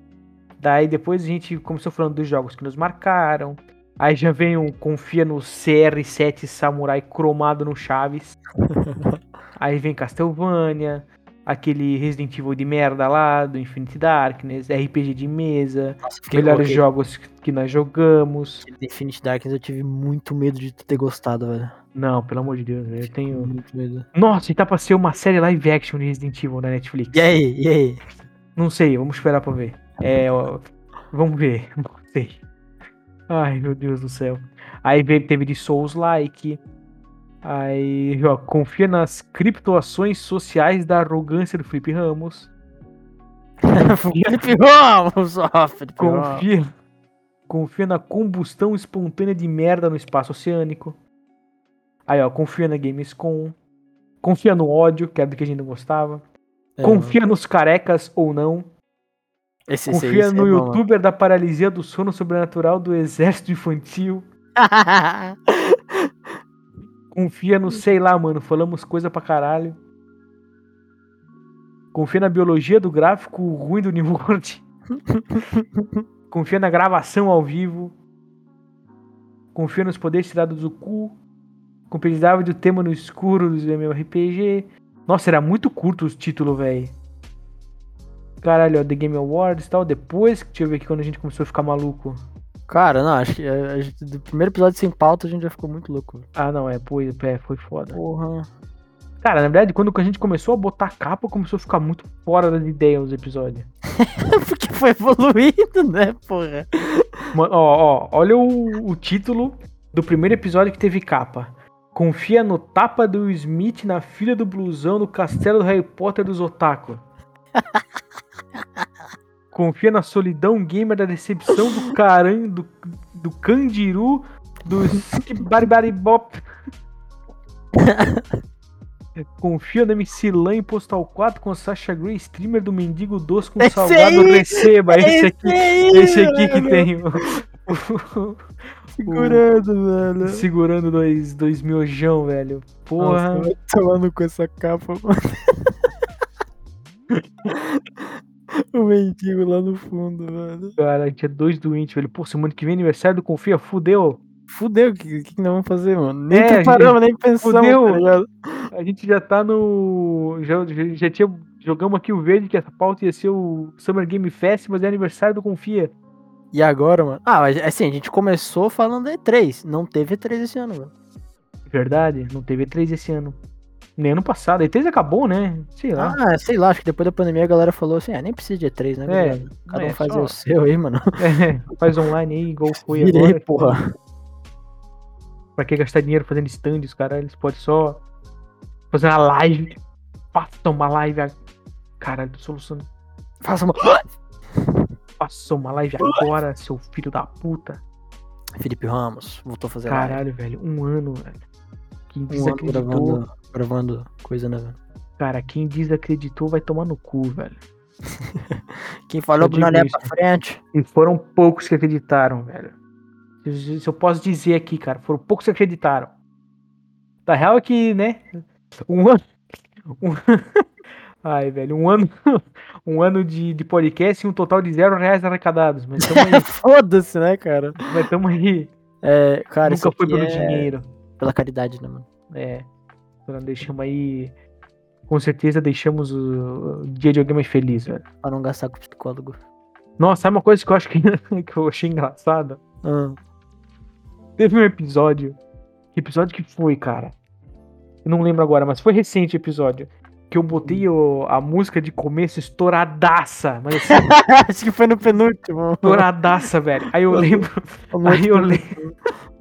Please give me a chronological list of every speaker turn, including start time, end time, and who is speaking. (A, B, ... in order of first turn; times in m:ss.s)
0:00.6-0:08.4 A
0:08.7-0:09.2 B
0:09.6-0:18.7 A
0:16.0-0:16.8 B
0:18.6-0:21.7 B
0:21.9-0:23.5 A
0:23.0-0:24.1 B
0:24.1-0:27.4 A
0:27.1-0:28.0 B
0:28.5-0:32.4 A
0:33.3-0:36.6 A
0:37.4-0:42.5 A
0:43.6-0:46.5 B
0:44.1-0:44.4 A
0:46.0-0:46.6 A
0:47.5-0:51.0 A
0:52.1-0:53.5 A
0:54.2-0:56.2 A
0:56.8-0:57.2 B
0:56.8-0:58.7 A
0:59.7-1:00.8 B
0:59.9-1:04.2 A
1:04.6-1:05.8 B
1:07.1-1:09.8 A
1:11.9-1:14.6 A
1:15.1-1:16.0 B
1:16.3-1:17.9 A
1:19.5-1:21.2 A
1:21.9-1:27.0 A
1:28.4-1:32.2 A
1:32.7-1:36.2 B
1:36.4-1:38.0 A
1:37.9-1:38.5 B
1:39.2-1:43.7 A
1:44.0-1:47.1 B
1:47.3-1:57.0 A
1:57.6-1:57.8 B
1:59.5-2:06.4 A
2:07.8-2:08.3 B
2:09.2-2:19.4 A
2:13.6-2:16.9 B
2:19.0-2:20.4 B
2:20.2-2:23.5 A
2:23.0-2:25.7 B
2:27.5-2:28.0 B
2:28.7-2:30.8 B
2:30.8-2:34.2 A
2:34.5-2:38.7 B
2:36.3-2:38.0 A
2:38.7-2:45.9 A
2:46.5-2:50.9 B
2:51.7-2:53.4 A
2:54.0-2:56.2 A
2:55.9-3:01.2 B
2:59.1-3:00.4 A
3:01.2-3:03.8 A
3:02.7-3:03.9 B
3:05.6-3:08.0 A
3:08.9-3:09.8 A
3:10.3-3:11.3 A
3:12.0-3:12.9 A
3:13.4-3:14.9 B
3:15.2-3:17.8 A
3:18.6-3:20.2 B
3:19.9-3:21.4 A
3:22.1-3:23.2 A
3:22.3-3:24.8 B
3:25.2-3:27.6 A
3:28.3-3:30.6 B
3:29.4-3:30.1 A
3:30.7-3:32.8 A
3:33.4-3:36.2 A
3:37.2-3:39.3 A
3:39.9-3:40.6 A
3:41.2-3:46.5 A
3:46.0-3:47.8 B
3:47.9-3:48.7 A
3:49.0-3:52.0 B
3:49.6-3:50.9 A
3:52.3-3:52.7 A
3:53.2-3:54.3 A
3:55.1-3:58.0 A
3:58.2-3:59.4 B
4:00.0-4:02.6 A
4:02.8-4:03.2 B
4:04.4-4:05.4 A
4:05.9-4:07.1 A
4:08.0-4:14.1 A
4:13.9-4:16.1 B
4:15.8-4:18.7 A
4:17.1-4:18.9 B